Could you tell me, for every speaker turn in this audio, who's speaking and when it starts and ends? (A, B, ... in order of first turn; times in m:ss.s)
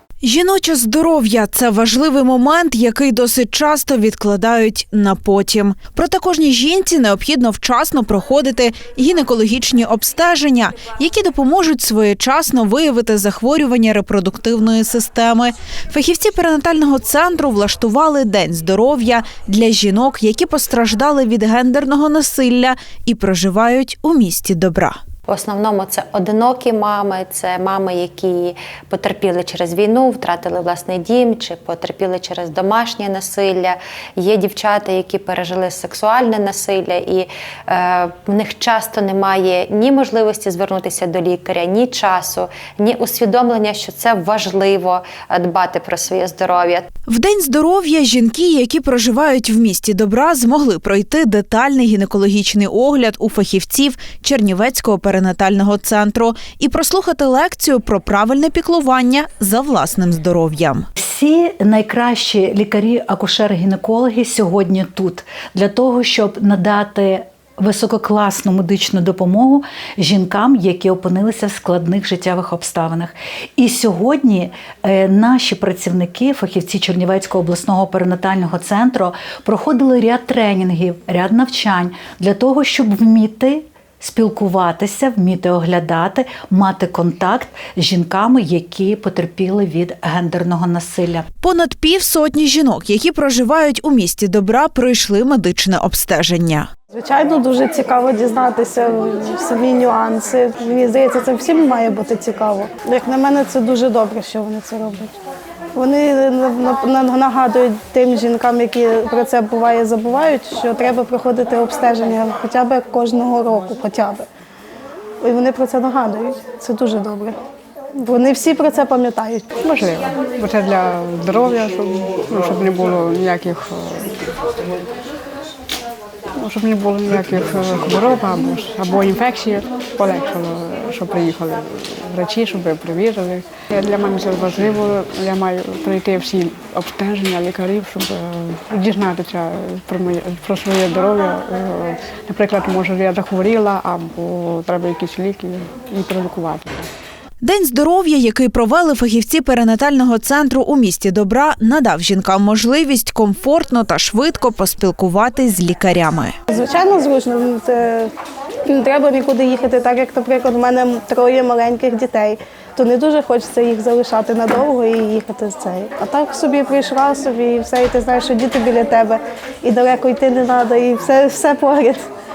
0:00.2-0:25.0 A
0:25.3-0:46.9 B
0:47.1-1:00.9 A
1:01.0-1:31.3 C
1:31.4-1:36.7 A
1:36.9-1:45.1 D
1:45.7-1:54.3 D
1:55.2-1:57.4 D
1:58.0-1:59.5 D
1:59.6-2:04.3 E
2:06.4-2:26.9 E
2:27.4-2:36.3 A
2:36.5-2:38.1 D
2:38.7-2:52.0 D